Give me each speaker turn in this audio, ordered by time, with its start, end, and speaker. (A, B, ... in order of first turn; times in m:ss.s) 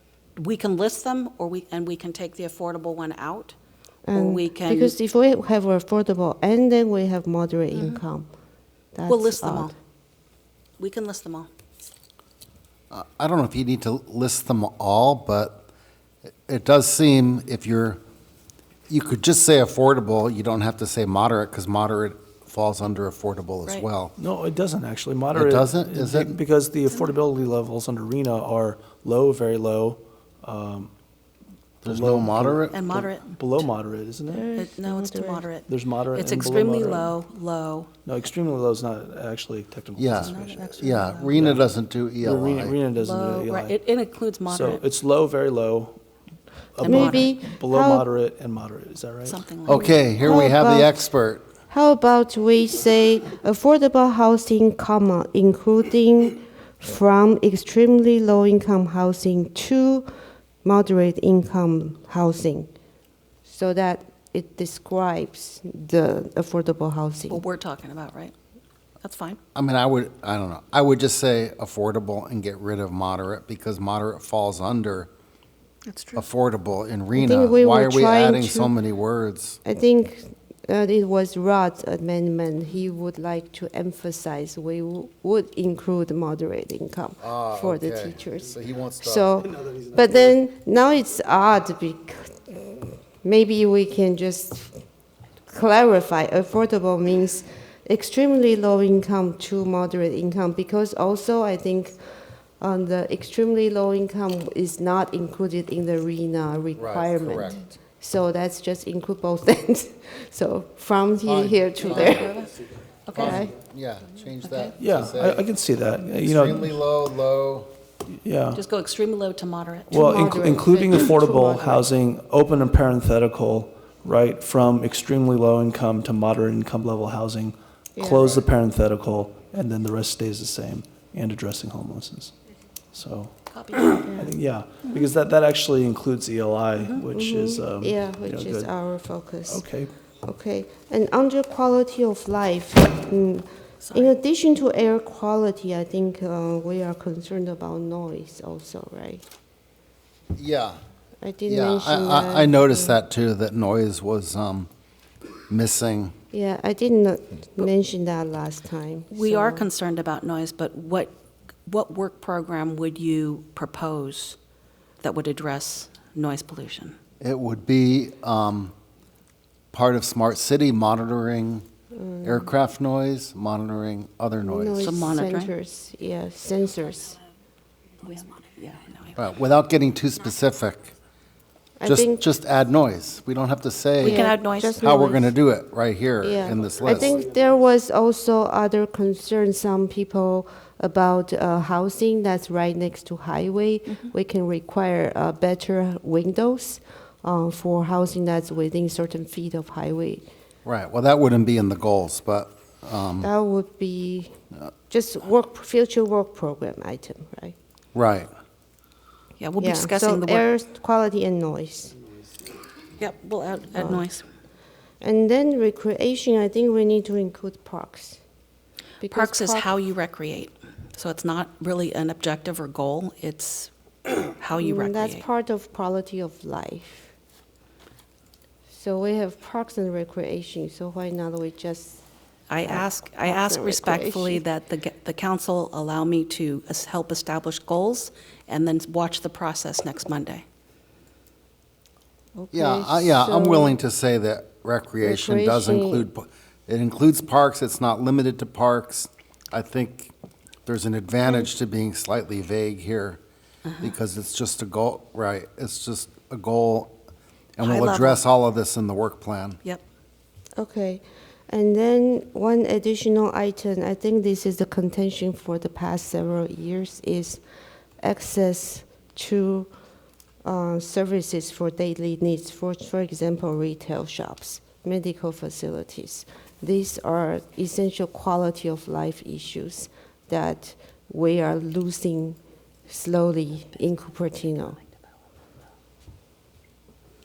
0:00.4-0:03.5 A
0:04.1-0:08.3 B
0:04.1-0:04.9 A
0:07.7-0:08.0 A
0:08.9-0:09.7 B
0:09.1-0:09.7 A
0:10.8-0:11.5 A
0:12.9-0:15.6 C
0:16.5-0:18.0 C
0:18.9-0:24.1 C
0:24.2-0:30.9 D
0:25.3-0:26.3 C
0:31.8-0:32.8 C
0:31.8-0:34.5 D
0:32.7-0:33.4 A
0:34.3-0:35.5 B
0:34.6-0:37.9 A
0:35.7-0:37.1 D
0:38.0-0:41.6 D
0:40.0-0:42.8 C
0:40.2-0:41.4 A
0:42.2-0:43.8 D
0:43.0-0:44.8 A
0:44.5-0:46.0 D
0:46.8-0:49.4 D
0:46.8-0:47.3 A
0:46.8-0:48.0 B
0:49.2-0:50.0 A
0:49.7-0:51.4 C
0:50.2-0:51.0 B
0:51.7-1:00.1 B
1:00.6-1:02.7 B
1:03.4-1:07.4 B
1:07.3-1:08.3 A
1:09.0-1:09.4 A
1:09.6-1:15.1 C
1:15.9-1:16.2 A
1:16.1-1:19.6 C
1:17.1-1:18.7 B
1:19.6-1:34.7 B
1:27.2-1:29.3 C
1:35.5-1:42.0 B
1:42.6-1:52.3 B
1:46.8-1:47.6 C
1:51.2-1:52.3 C
1:51.8-1:53.5 A
1:53.1-1:55.5 C
1:53.1-1:53.6 B
1:54.4-1:54.7 A
1:54.8-1:56.7 D
1:56.2-1:57.7 C
1:58.2-1:58.6 D
1:58.6-2:00.4 A
1:59.9-2:01.9 B
1:59.9-2:12.3 D
2:08.0-2:08.4 B
2:12.9-2:18.7 D
2:13.5-2:13.9 A
2:13.7-2:14.3 B
2:16.8-2:17.0 A
2:17.1-2:19.6 B
2:19.5-2:19.9 D
2:20.2-2:29.2 B
2:23.8-2:24.1 A
2:30.4-2:30.8 C
2:31.2-2:33.0 B
2:31.4-2:34.7 C
2:35.5-2:36.1 C
2:36.3-2:39.7 B
2:39.1-2:41.1 A
2:41.7-2:44.4 A
2:45.0-2:47.0 A
2:47.2-2:48.7 C
2:49.7-2:51.7 C
2:51.9-2:52.5 B
2:52.2-2:55.0 C
2:54.4-2:57.2 B
2:54.8-2:55.5 A
2:58.0-2:59.2 A
2:59.2-3:00.9 C
3:01.8-3:02.2 B
3:01.8-3:04.3 C
3:04.0-3:04.8 A
3:04.0-3:05.3 B
3:04.8-3:07.2 C
3:06.2-3:20.2 B
3:20.6-3:23.3 C
3:23.2-3:24.3 B
3:24.9-3:27.5 B
3:27.9-3:28.3 C
3:29.4-3:30.4 A
3:29.6-3:32.0 B
3:33.0-3:34.2 A
3:33.8-3:34.0 B
3:35.0-3:38.2 B
3:39.0-3:39.8 B
3:39.1-3:43.7 A
3:44.3-3:45.2 A
3:44.6-3:47.1 B
3:48.7-3:52.0 B
3:52.5-4:00.4 A
3:52.6-3:54.4 B
4:02.4-4:03.8 B
4:02.5-4:10.1 C
4:05.0-4:06.0 B
4:10.7-4:13.2 C
4:13.6-4:13.9 A
4:13.8-4:17.0 C
4:17.6-4:19.6 C
4:17.6-4:18.2 A
4:20.6-4:27.4 B
4:28.0-4:29.7 B
4:30.4-4:44.8 B